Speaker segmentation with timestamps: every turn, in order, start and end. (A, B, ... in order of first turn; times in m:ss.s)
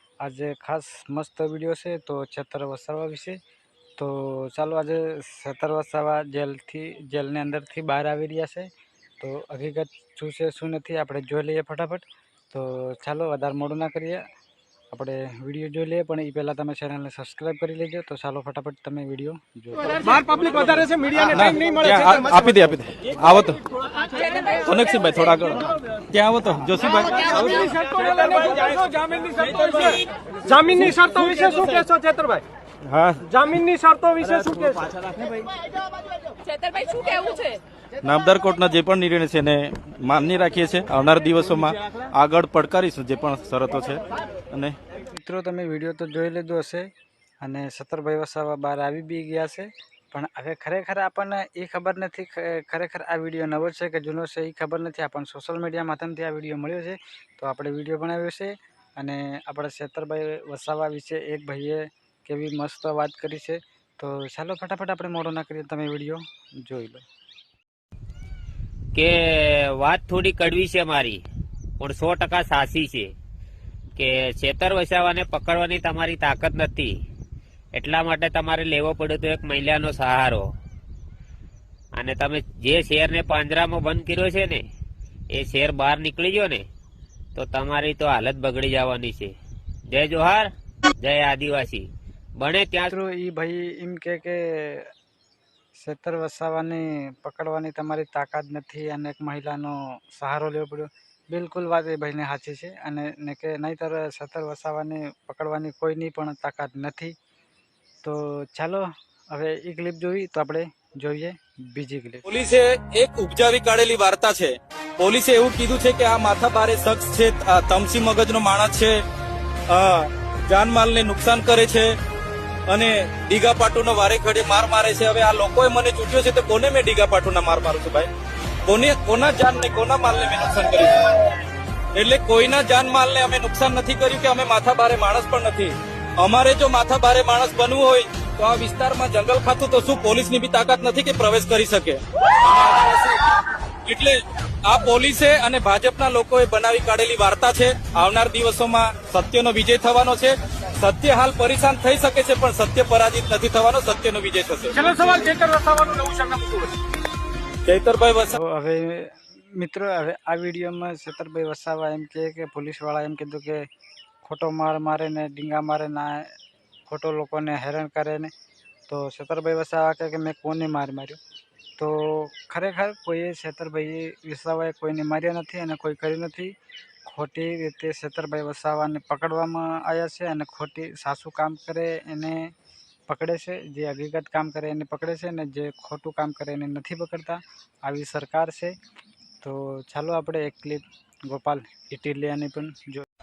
0:00.2-0:03.4 A
0:04.0-0:08.7 A
0:09.2-0:14.3 A
0:14.9-0:20.6 A
0:20.6-0:21.0 B
0:21.0-0:23.6 C
0:24.7-0:27.7 C
0:27.7-0:29.9 B
0:29.6-0:30.0 C
0:30.5-0:32.4 B
0:30.6-0:31.2 C
0:32.9-0:33.4 C
0:33.3-0:35.0 B
0:38.0-0:44.0 C
0:45.2-0:46.9 A
0:47.4-1:07.0 A
1:09.0-1:11.2 D
1:11.8-1:13.1 D
1:14.0-1:17.0 D
1:17.8-1:20.5 D
1:22.0-1:24.6 D
1:25.3-1:26.6 D
1:27.4-1:29.4 D
1:29.9-1:30.5 D
1:31.0-1:31.9 D
1:32.4-1:32.9 D
1:32.9-1:34.9 A
1:35.8-1:47.2 A
1:48.0-1:52.2 A
1:52.2-1:59.0 C
1:59.7-2:01.9 C
2:02.7-2:08.1 C
2:08.7-2:11.0 C
2:12.0-2:23.2 C
2:23.9-2:34.8 C
2:34.8-2:36.7 B
2:37.6-2:38.4 C
2:38.3-2:43.7 A
2:44.2-2:46.3 A
2:46.9-2:48.3 A
2:48.9-2:51.2 A
2:51.8-2:56.6 A
2:57.1-3:02.5 A
3:03.1-3:08.8 A
3:09.4-3:13.0 A